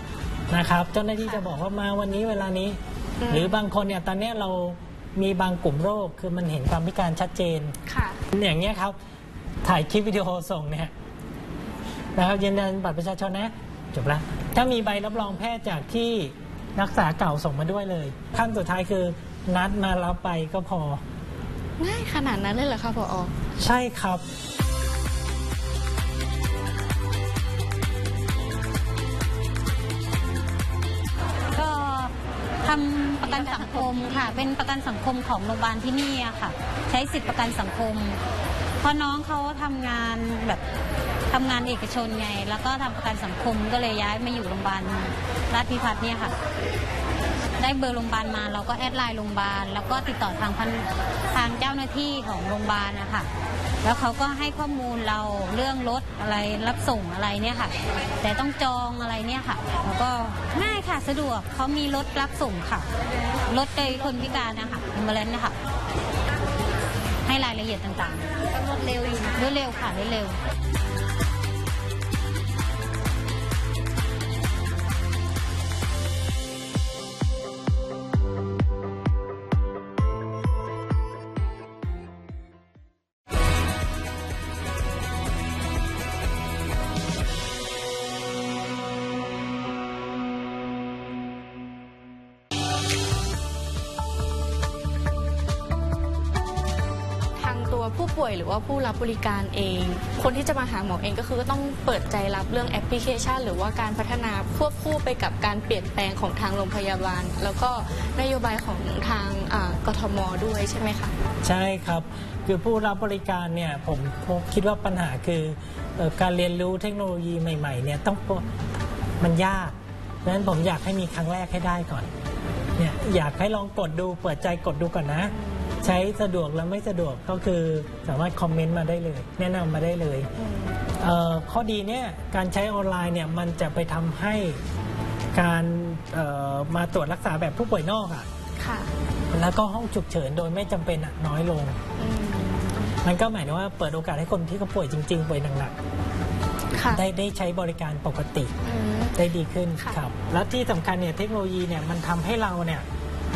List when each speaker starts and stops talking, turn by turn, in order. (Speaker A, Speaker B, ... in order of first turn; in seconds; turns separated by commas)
Speaker A: 0.5-2.8, Speaker B: 3.2-3.6, Speaker A: 3.3-7.8, Speaker B: 7.9-8.2, Speaker A: 8.3-9.0, Speaker A: 9.6-10.9, Speaker A: 12.2-21.0, Speaker B: 15.1-15.4, Speaker B: 21.8-23.3, Speaker A: 23.6-24.2, Speaker C: 31.5-38.2, Speaker B: 33.3-34.4, Speaker C: 38.8-40.6, Speaker C: 41.3-46.3, Speaker C: 47.6-53.3, Speaker C: 53.8-62.9, Speaker C: 63.5-65.6, Speaker C: 67.2-70.4, Speaker B: 97.4-111.1, Speaker A: 111.4-118.5, Speaker A: 119.2-122.1, Speaker A: 122.8-130.3, Speaker B: 125.2-125.9, Speaker B: 130.4-130.8, Speaker A: 131.0-134.6, Speaker A: 135.3-138.3, Speaker B: 138.6-138.9, Speaker A: 139.3-141.8, Speaker B: 142.0-142.9, Speaker A: 143.0-145.8, Speaker B: 146.8-147.0, Speaker A: 146.9-148.5, Speaker B: 148.7-149.2, Speaker A: 149.2-152.9